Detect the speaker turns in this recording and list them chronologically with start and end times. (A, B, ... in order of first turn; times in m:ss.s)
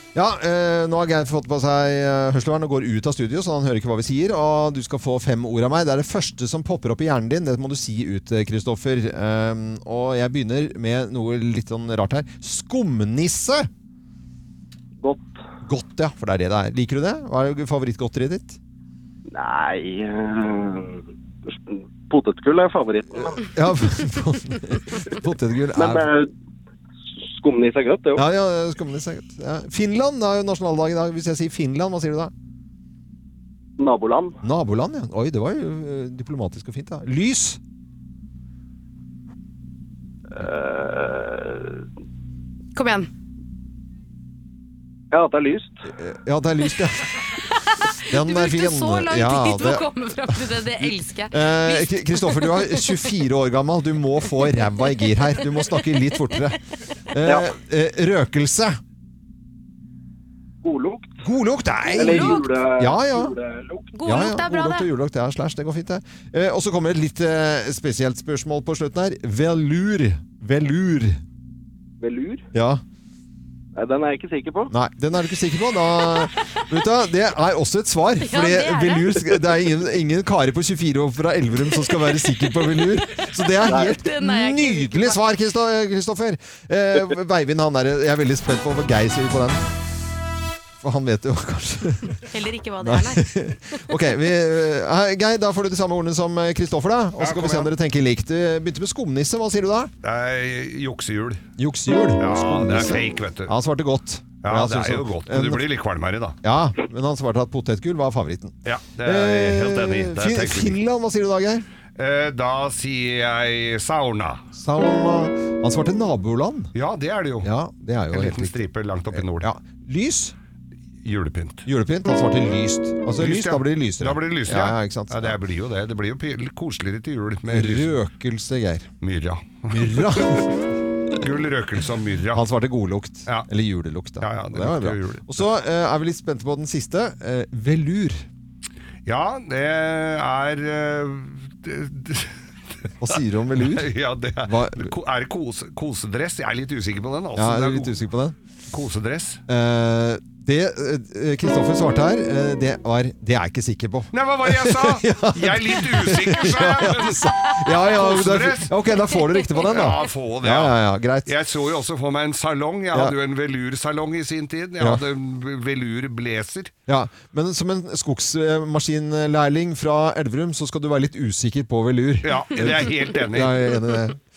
0:00.1-0:13.7 A
0:15.0-0:15.3 B
0:15.6-0:18.6 A
0:19.3-0:23.5 B
0:23.4-0:26.1 A
0:25.7-0:26.3 B
0:27.2-0:28.2 B
0:28.2-0:32.3 A
0:33.8-0:34.4 B
0:34.4-0:37.6 A
0:40.3-0:41.8 B
0:42.7-0:43.1 C
0:45.1-0:45.8 B
0:46.0-0:47.1 A
0:47.4-0:52.9 C
0:48.1-0:49.8 A
0:51.3-0:56.6 A
0:57.1-0:58.8 A
0:57.2-0:57.5 B
1:00.6-1:01.2 B
1:01.2-1:03.3 A
1:01.9-1:03.9 B
1:01.9-1:02.5 C
1:03.9-1:04.9 C
1:04.0-1:11.2 A
1:12.0-1:12.4 B
1:12.5-1:12.8 A
1:13.7-1:14.7 B
1:14.7-1:29.6 A
1:18.2-1:19.4 C
1:23.6-1:25.2 C
1:30.8-1:32.2 A
1:32.3-1:33.3 C
1:32.8-1:39.9 A
1:37.2-1:37.7 D
1:40.0-1:41.5 D
1:41.6-1:45.6 A
1:42.2-1:43.5 D
1:44.4-1:46.4 D
1:46.4-1:51.6 A
1:48.6-1:50.8 D
1:52.0-1:54.4 D
1:54.5-1:56.7 A
1:56.7-1:57.5 D
1:57.4-1:58.6 A
1:58.1-1:59.5 D
1:59.1-2:00.3 A
2:01.0-2:01.6 D
2:01.6-2:05.4 A
2:03.2-2:07.9 D
2:07.5-2:08.9 A
2:09.0-2:10.5 D
2:09.7-2:10.5 A
2:11.2-2:12.4 D
2:12.3-2:18.2 A
2:14.2-2:15.4 D
2:19.0-2:22.3 D
2:23.0-2:23.9 A
2:23.1-2:28.0 D
2:24.4-2:24.9 A
2:27.4-2:28.4 A
2:28.7-2:29.4 D
2:29.5-2:41.3 A
2:34.1-2:38.7 D
2:39.1-2:39.6 C
2:39.6-2:46.7 D
2:46.9-2:54.2 A
2:52.2-2:53.8 D